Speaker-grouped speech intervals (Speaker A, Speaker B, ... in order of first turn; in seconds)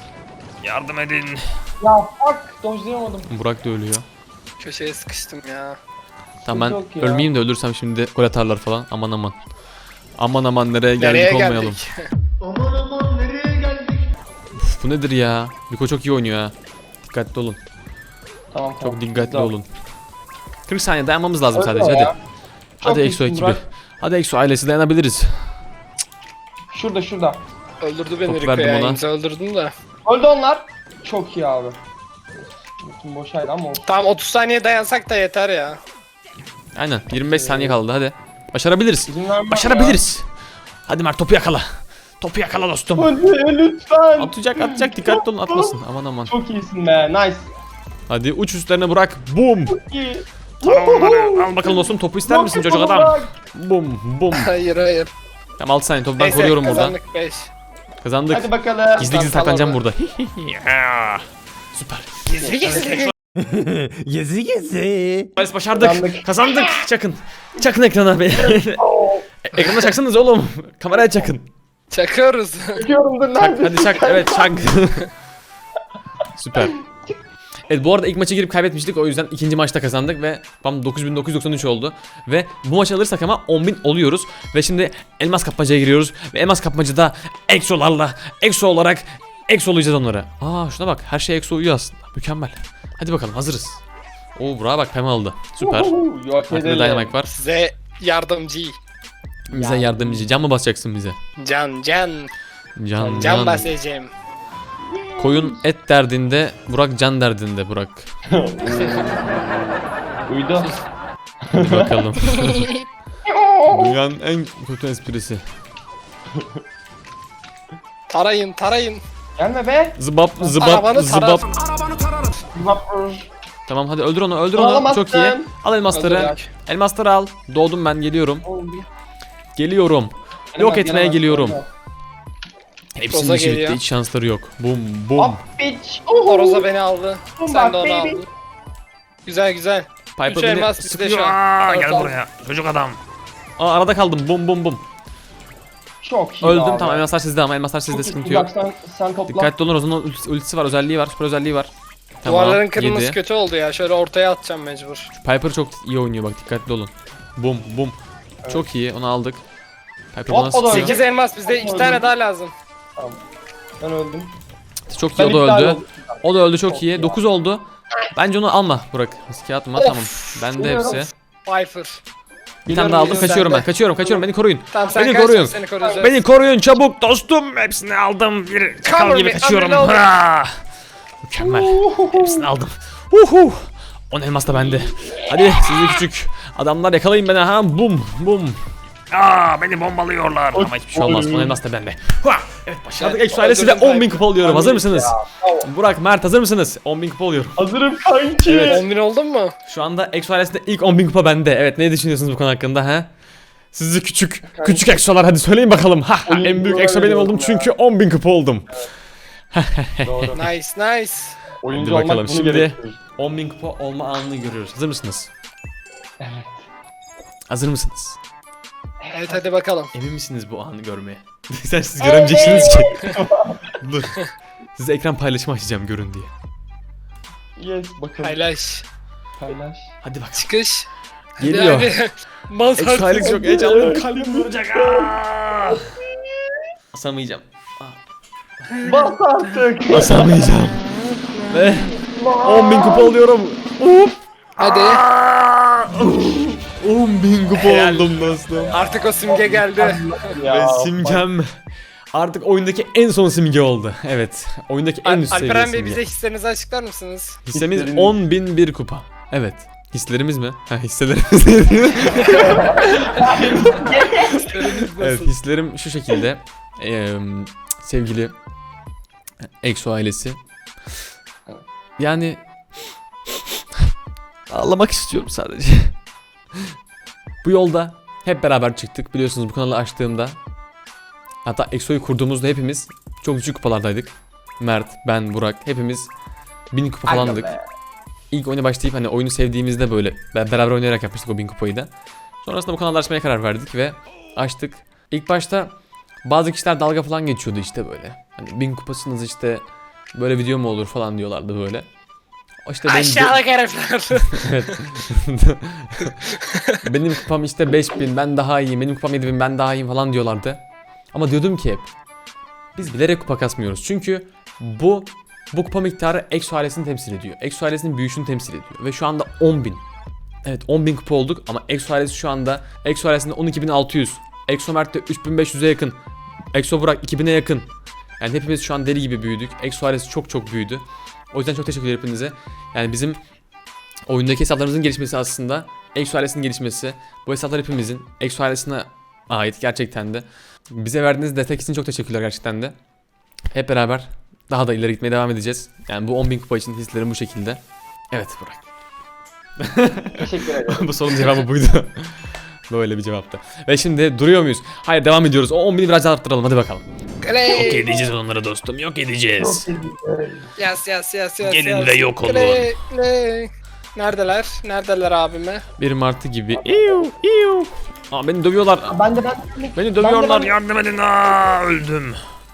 Speaker A: 0.6-1.5, 3.3-4.0, 6.5-9.4, 10.2-11.8, 14.6-17.6, 18.8-19.7, 20.7-22.1, 22.8-25.5, 28.3-29.0, 36.8-40.3, 40.9-43.2, 44.2-46.4, 48.1-49.8, 50.6-54.5, 55.6-57.0, 58.0-63.0, 63.6-68.8, 69.4-71.5, 73.4-75.1, 76.4-76.8, 77.7-93.8, 94.3-97.3, 99.5-101.2, 102.8-103.7, 105.2-108.1, 111.6-112.7, 113.7-115.4, 120.0-121.5, 123.7-128.4, 129.6-131.6, 132.9-135.4, 140.2-143.0, 143.6-144.8, 146.4-148.5, 149.3-151.7, 152.2-153.2, 155.2-158.0, 158.5-159.4, 160.1-160.9, 164.9-171.1, 172.7-180.5, 181.2-188.6, 189.1-197.6, 198.4-198.8, 199.7-203.1, 203.7-208.7, 209.5-210.3, 211.7-215.3, 217.5-218.2, 219.9-223.2, 223.8-224.2, 224.8-226.3, 230.0-230.5, 231.4-231.9, 232.8-235.9, 236.9-238.0, 239.9-240.9, 241.5-248.9, 250.4-251.5, 252.1-256.0, 257.5-268.3, 269.6-270.4, 272.0-272.4, 274.5-276.0, 277.4-280.4, 281.4-286.1, 286.7-287.5, 288.3-291.9, 292.4-295.7, 296.2-301.9, 302.6-303.4, 304.3-306.2, 306.8-310.6, 311.1-311.9, 312.8-319.8, 320.4-326.0, 326.5-327.7, 328.2-333.2, 334.1-342.8, 343.5-347.6, 348.1-348.6, 349.6-356.8, 357.5-359.7, 361.4-362.7, 365.8-369.0, 369.8-372.2
Speaker B: 1.8-3.3, 6.5-7.3, 18.5-19.5, 21.5-22.2, 22.8-23.6, 26.7-27.4, 30.1-31.8, 32.6-33.9, 37.2-37.8, 39.1-40.0, 43.0-45.8, 46.3-47.5, 49.7-53.3, 58.3-59.8, 65.8-66.3, 68.3-69.3, 72.8-74.6, 76.6-77.1, 95.6-97.1, 99.5-100.3, 103.0-103.6, 104.9-105.6, 108.3-110.8, 111.5-112.0, 113.3-114.0, 116.3-116.6, 119.4-120.6, 122.4-123.3, 124.5-126.5, 128.4-128.9, 130.5-131.7, 135.2-136.7, 137.4-138.2, 141.7-142.1, 146.0-147.1, 147.9-149.5, 160.3-162.1, 163.8-164.3, 165.2-167.2, 170.5-171.1, 172.7-174.2, 175.8-176.1, 181.4-182.5, 184.5-184.8, 190.5-191.6, 194.4-195.7, 197.6-198.8, 204.5-205.0, 206.3-207.7, 210.0-210.5, 211.6-213.0, 216.2-216.6, 219.0-219.4, 222.0-223.8, 227.6-228.4, 229.4-229.9, 233.2-236.6, 238.8-240.6, 241.9-243.2, 249.2-251.3, 257.5-258.2, 262.3-264.3, 287.1-287.6, 350.1-350.9, 359.4-360.5, 366.6-367.1, 368.9-370.6
Speaker C: 4.6-5.8, 11.0-12.1, 27.8-29.7, 33.9-35.8, 54.3-55.1, 56.2-57.5, 62.4-63.1, 69.5-69.9, 71.9-72.8, 97.3-98.8, 101.4-102.3, 103.2-104.1, 112.3-112.8, 118.1-119.0, 120.6-122.3, 133.1-133.8, 136.2-138.3, 139.3-142.1, 152.2-155.1, 160.7-162.5, 171.4-172.0, 172.9-173.7, 174.7-176.2, 178.8-180.1, 193.0-194.2, 198.6-199.5, 210.3-211.4, 219.1-219.9, 228.2-228.8, 230.4-230.9, 231.4-233.4, 244.6-245.0, 247.6-250.3, 255.0-257.4, 262.1-265.3, 302.9-304.9, 306.5-306.8, 357.2-358.1, 360.6-365.6